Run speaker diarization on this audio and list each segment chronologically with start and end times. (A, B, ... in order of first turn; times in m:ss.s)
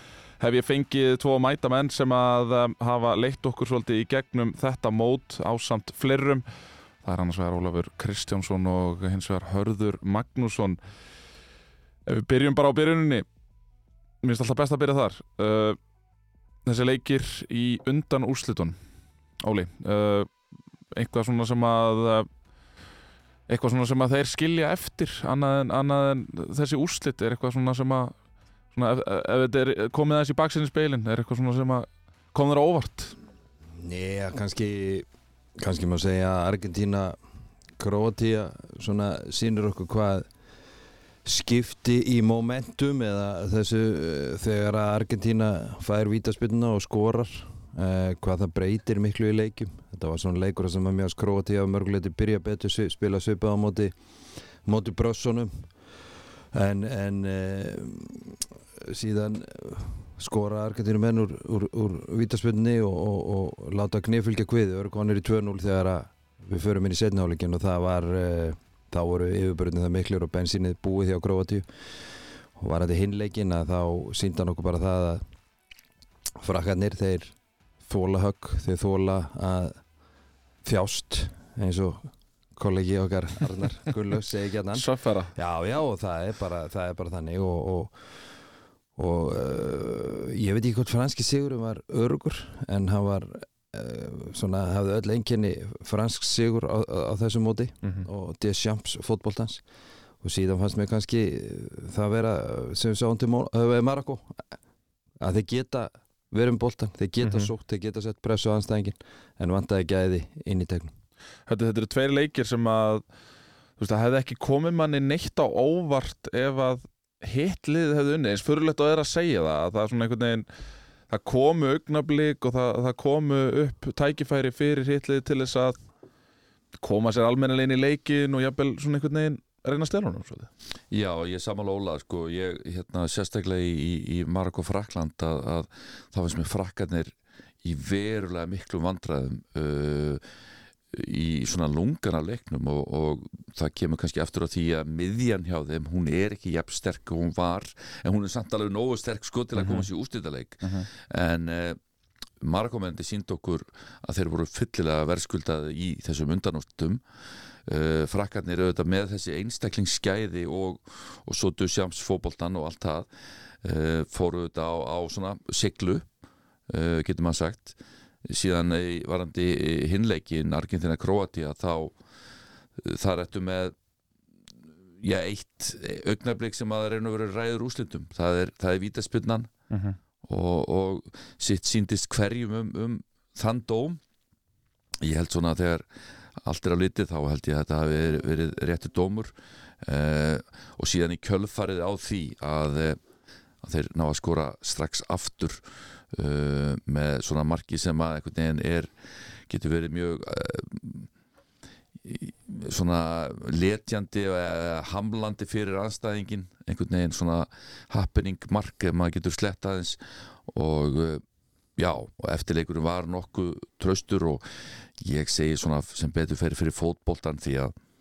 0:00.4-0:06.4 A
0:07.0-0:10.8 A
0:12.0-0:13.2 A
0:14.2-0:15.8 A
0:16.6-0:18.8 A
0:19.4-0:20.3 A
0:20.9-0:22.3 A
0:23.5-0:28.2 A
0:28.7-0:33.1 A
0:33.8-0:37.2 B
0:37.8-0:40.3 B
0:41.2-0:53.9 B
0:54.6-0:55.7 B
0:56.5-1:11.6 B
1:12.6-1:15.2 B
1:16.4-1:19.8 B
1:20.6-1:28.0 B
1:24.7-1:25.3 A
1:29.0-1:39.6 B
1:40.2-1:44.6 B
1:45.2-1:50.9 B
1:47.2-1:47.5 A
1:51.5-1:53.0 A
1:53.8-2:00.5 A
2:01.1-2:05.8 A
2:06.8-2:10.5 A
2:10.9-2:20.2 C
2:20.9-2:31.8 C
2:29.6-2:29.9 A
2:30.6-2:30.9 A
2:32.4-2:37.0 C
2:37.5-2:43.1 C
2:43.6-2:46.0 C
2:46.7-2:52.0 C
2:52.8-2:53.7 C
2:55.0-2:59.5 C
2:59.7-3:00.0 A
3:00.2-3:04.0 C
3:05.0-3:05.8 C
3:06.4-3:13.0 C
3:13.6-3:21.1 C
3:22.0-3:31.2 C
3:31.8-3:37.7 C